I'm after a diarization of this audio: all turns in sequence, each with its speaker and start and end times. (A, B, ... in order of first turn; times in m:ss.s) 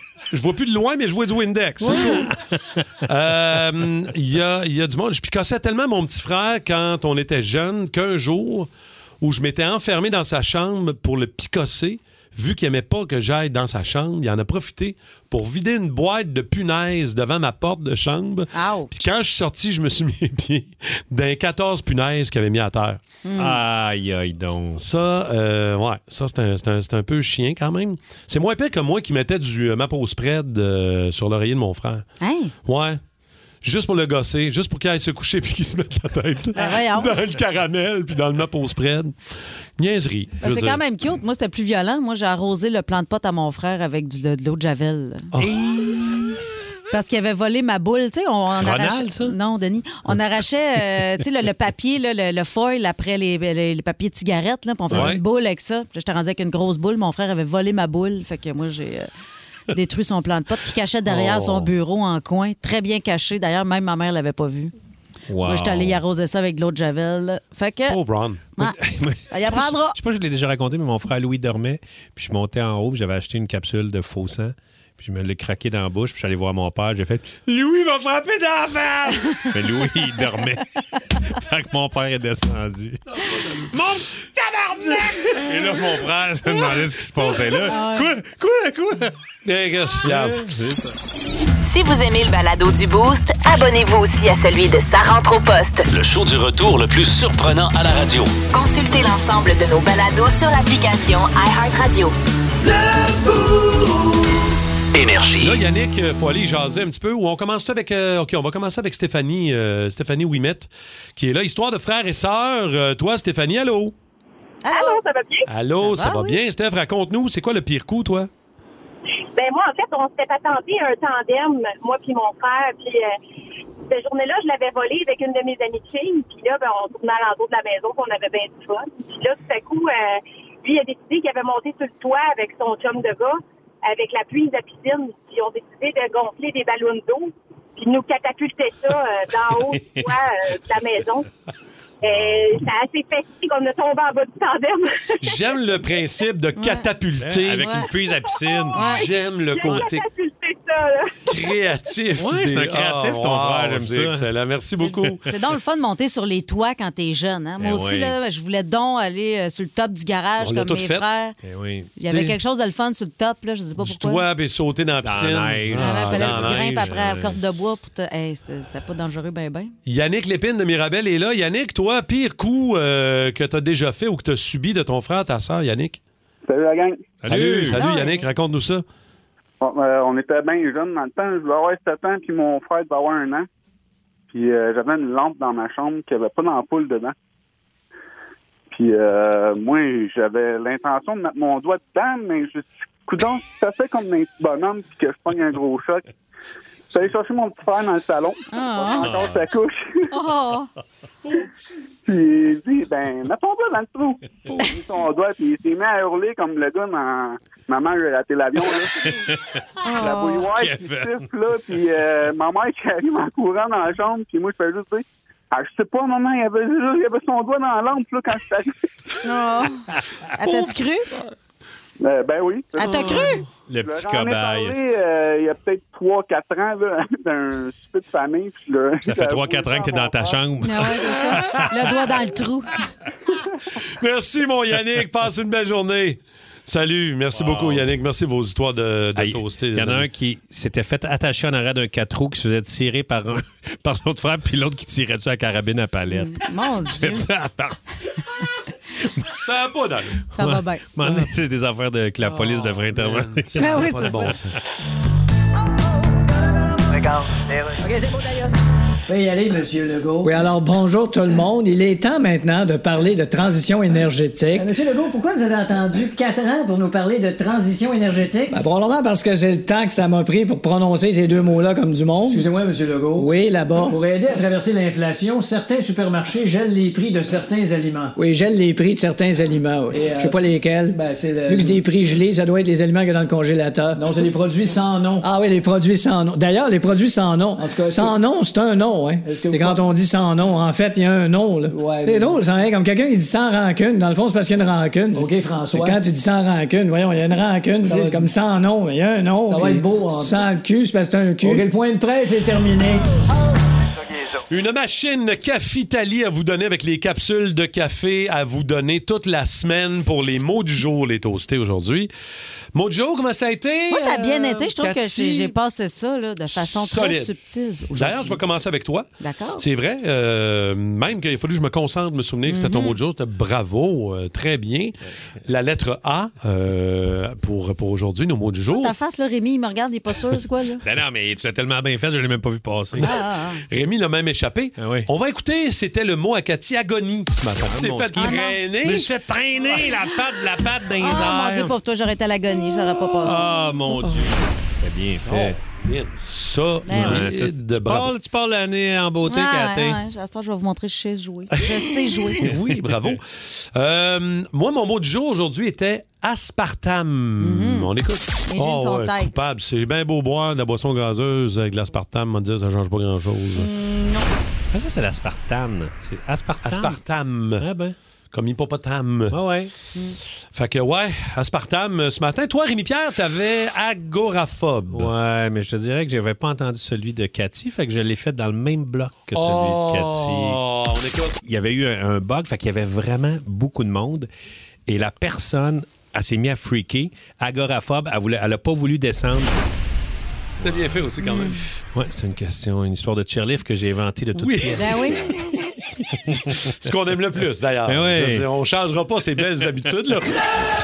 0:00.3-0:02.3 A
0:01.8-0:02.8 B
0:01.8-0:02.2 C
0:03.0-0:08.7 A
0:09.2-0:23.0 A
0:18.5-0:18.9 C
0:23.2-0:23.6 C
0:23.4-0:24.8 B
0:24.8-0:32.0 A
0:32.2-0:32.5 C
0:32.6-0:33.0 A
0:33.6-0:39.1 A
0:36.5-0:37.2 C
0:39.8-0:40.8 A
0:40.4-0:45.3 C
0:45.3-0:45.7 A
0:45.4-0:46.6 B
0:46.9-0:59.1 C
0:48.6-0:49.4 B
0:54.9-0:55.1 B
0:54.9-0:55.2 A
0:59.7-1:04.7 C
1:01.0-1:01.7 A
1:05.3-1:06.0 B
1:05.4-1:08.0 C
1:07.9-1:08.4 A
1:08.6-1:29.2 B
1:09.3-1:10.0 C
1:23.2-1:23.7 A
1:27.6-1:28.1 C
1:29.4-1:30.4 A
1:30.0-1:31.0 B
1:31.6-1:35.9 D
1:35.9-1:38.3 E
1:38.5-1:42.1 D
1:44.9-1:45.6 E
1:45.4-1:53.9 A
1:54.6-1:55.0 C
1:54.7-1:55.5 F
1:55.5-1:58.3 A
1:55.8-1:56.4 C
1:59.3-2:03.1 F
2:03.9-2:21.3 F
2:22.0-2:25.6 F
2:25.2-2:27.7 A
2:26.6-2:26.9 C
2:27.2-2:29.0 B
2:28.0-2:31.2 F
2:28.7-2:29.0 C
2:28.8-2:30.0 A
2:31.2-2:35.2 A
2:32.2-2:34.3 B
2:34.8-2:35.2 B
2:35.2-2:41.4 C
2:37.6-2:38.2 B
2:40.4-2:41.0 A
2:41.4-2:41.9 B
2:42.0-2:44.2 C
2:42.1-2:42.4 A
2:43.8-2:47.0 A
2:45.0-2:47.4 B
2:45.8-2:49.7 C
2:49.8-2:56.0 A
2:56.4-2:57.0 G
2:57.2-2:57.8 B
2:57.3-2:58.8 A
2:57.7-2:58.3 C
2:59.6-3:03.5 G
3:04.3-3:07.1 G
3:08.7-3:16.0 G
3:16.9-3:20.0 G
3:18.5-3:19.1 C
3:19.0-3:19.4 B
3:20.1-3:20.7 C
3:22.0-3:29.3 G
3:24.5-3:24.8 B
3:29.0-3:29.4 B
3:29.8-3:30.5 C
3:30.0-3:38.8 G
3:30.5-3:31.3 B
3:39.2-3:41.1 C
3:42.0-3:50.4 G
3:42.8-3:43.4 C
3:43.7-3:45.0 B
3:49.0-3:52.0 B
3:50.6-3:52.9 C
3:53.8-4:00.0 A
3:57.3-3:57.9 B
3:59.2-4:07.8 B
4:06.1-4:07.3 C
4:09.3-4:10.2 A
4:10.3-4:14.4 B
4:10.3-4:10.8 C
4:12.2-4:14.6 A
4:13.6-4:14.3 C
4:16.9-4:18.5 H
4:19.1-4:20.3 H
4:20.2-4:24.7 I
4:24.5-4:28.6 H
4:28.5-4:32.5 I
4:32.3-4:38.1 H
4:33.2-4:34.0 I
4:38.2-4:44.3 I
4:39.9-4:41.8 H
4:44.0-4:45.3 H
4:45.2-5:01.7 I
4:47.6-4:48.2 H
4:49.2-4:49.8 H
4:51.7-4:52.4 H
4:55.1-4:56.0 H
4:57.8-4:58.3 H
4:59.5-5:00.4 H
5:01.4-5:03.0 H
5:04.5-5:12.1 A
5:12.7-5:15.5 A
5:13.9-5:18.4 C
5:16.5-5:17.3 A
5:17.9-5:19.1 A
5:19.2-5:19.6 C
5:19.6-5:24.9 A
5:22.4-5:23.0 C
5:25.4-5:28.9 A
5:28.7-5:30.8 C
5:30.8-5:33.1 B
5:33.0-5:39.1 A
5:33.0-5:33.6 C
5:34.8-5:35.1 B
5:37.5-5:41.7 B
5:38.2-5:38.6 C
5:41.0-5:43.5 C
5:43.2-5:45.6 B
5:45.2-5:48.1 A
5:46.8-5:47.2 C
5:46.9-5:50.0 B
5:49.2-5:52.5 C
5:52.4-6:03.7 A
5:52.4-5:53.1 B
5:57.4-5:57.9 C
5:58.5-5:59.3 C
6:03.6-6:04.3 C
6:04.7-6:07.0 B
6:06.6-6:07.6 A
6:07.6-6:08.0 B
6:08.3-6:09.4 A
6:09.3-6:09.7 B
6:10.5-6:15.1 A
6:14.9-6:20.6 B
6:19.3-6:21.4 A
6:21.4-6:24.3 B
6:24.9-6:29.6 B
6:30.6-6:31.7 A
6:30.6-6:31.1 B
6:31.2-6:31.6 C
6:31.9-6:35.2 B
6:34.4-6:35.6 A
6:34.8-6:35.3 C
6:36.2-6:36.7 B
6:36.6-6:40.4 A
6:37.8-6:38.4 B